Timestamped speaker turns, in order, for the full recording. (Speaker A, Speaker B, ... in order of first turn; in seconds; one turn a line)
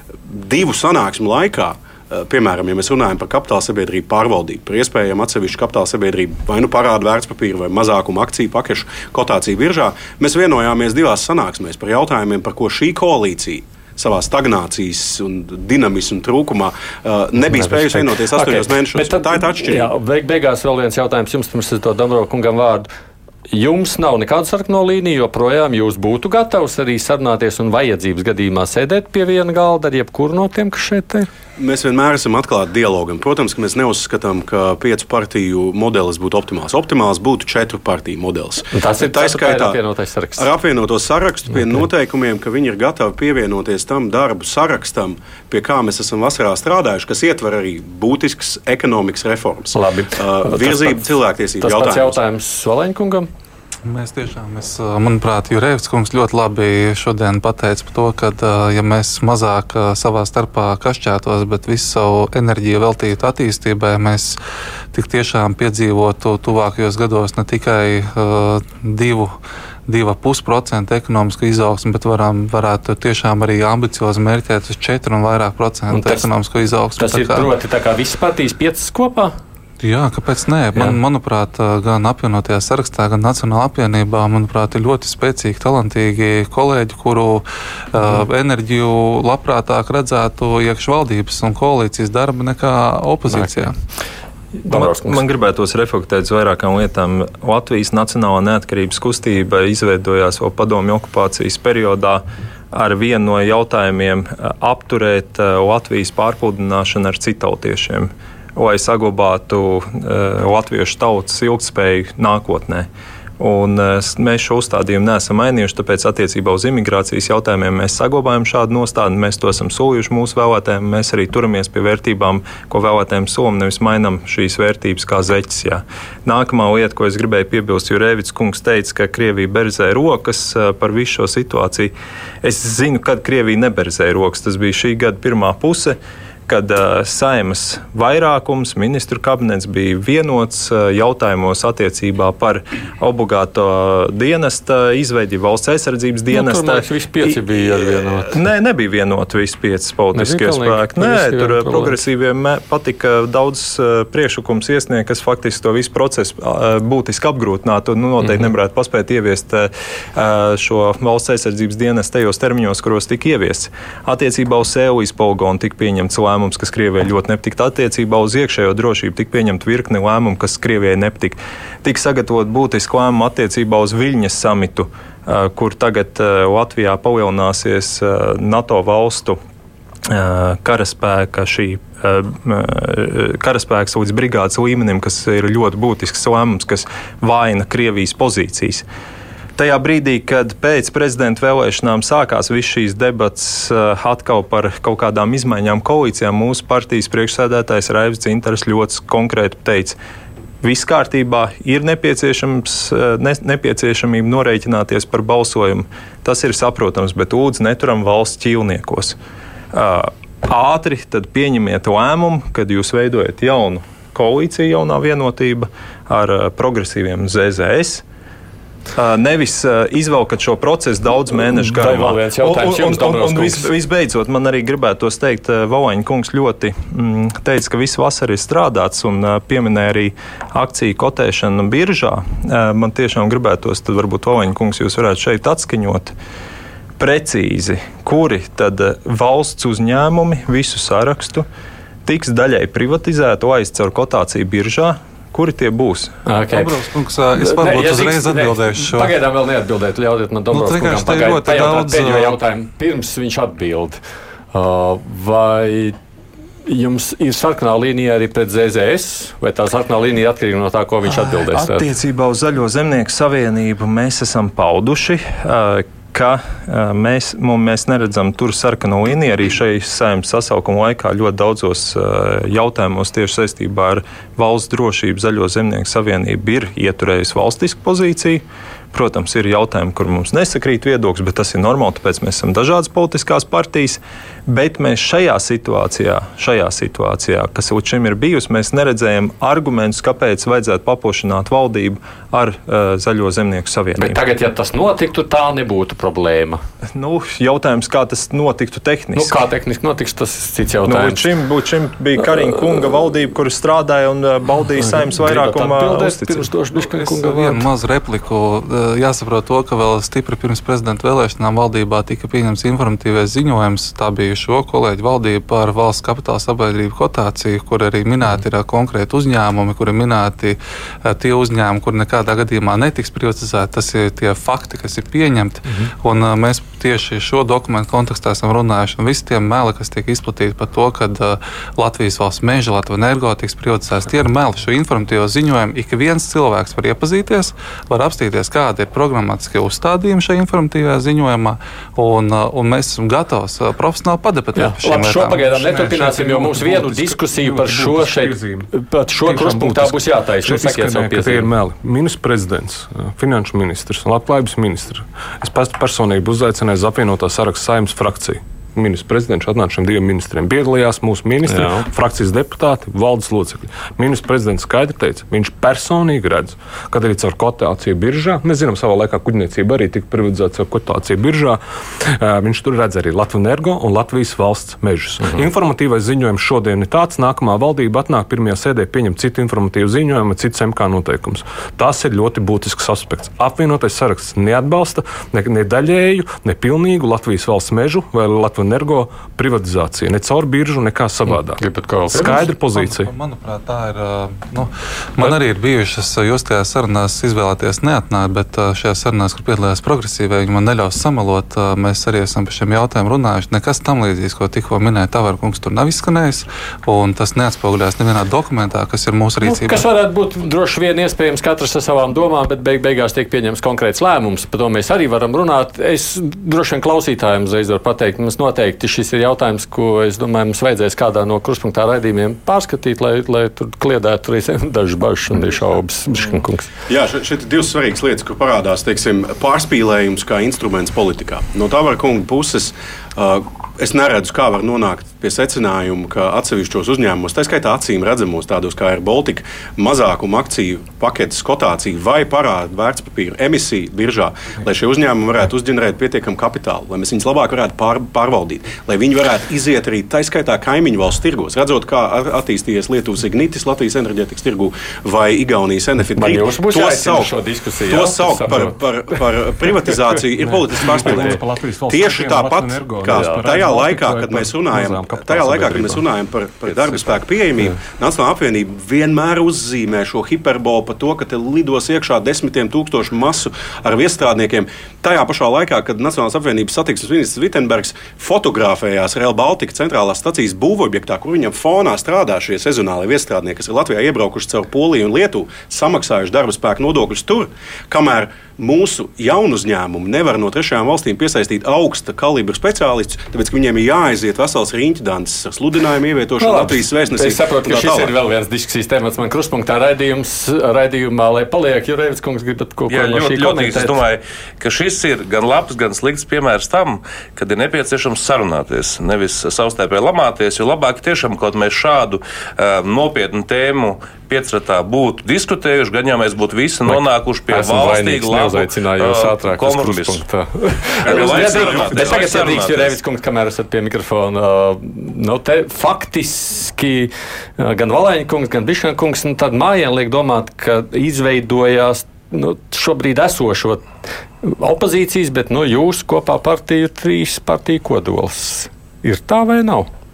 Speaker A: 0.3-19.9
Speaker B: 17.4-22.9
Speaker B: 23.5-31.3
Speaker A: 31.6-39.8
Speaker B: 38.7-40.5
Speaker A: 40.4-52.2
Speaker B: 49.7-53.3
Speaker C: 53.9-64.4
Speaker C: 64.9-69.4
Speaker C: 69.9-77.5
Speaker B: 75.9-76.3
Speaker B: 77.0-79.3
Speaker C: 79.8-93.8
Speaker B: 94.6-95.2
Speaker D: 94.7-179.4
Speaker B: 146.3-148.4
Speaker B: 150.1-152.0
Speaker D: 180.1-188.8
Speaker D: 189.6-200.0
Speaker D: 200.6-209.2
Speaker D: 209.7-218.0
Speaker D: 218.9-236.1
Speaker B: 221.5-223.7
Speaker D: 237.0-241.5
Speaker D: 242.1-246.1
Speaker B: 246.3-246.8
Speaker C: 246.5-249.2
Speaker B: 247.4-254.0
Speaker C: 250.5-252.4
Speaker B: 254.5-256.0
Speaker B: 256.7-261.9
Speaker D: 261.1-294.2
Speaker B: 294.0-296.6
Speaker D: 296.9-299.4
Speaker B: 299.1-301.3
Speaker D: 300.9-306.5
Speaker B: 304.8-307.7
Speaker C: 306.7-345.6
Speaker B: 344.6-351.5
Speaker E: 345.6-348.7
Speaker E: 349.2-393.1
Speaker B: 361.4-361.9
Speaker B: 391.3-392.4
Speaker C: 392.2-409.9
Speaker B: 409.4-426.7
Speaker A: 426.9-498.1
Speaker B: 456.2-458.8
Speaker E: 460.4-466.1
Speaker B: 460.9-461.4
Speaker B: 463.1-463.4
Speaker B: 496.4-504.0
Speaker F: 502.9-520.2
Speaker B: 516.9-533.8
Speaker A: 521.0-522.5
Speaker F: 521.0-523.0
Speaker B: 534.4-539.9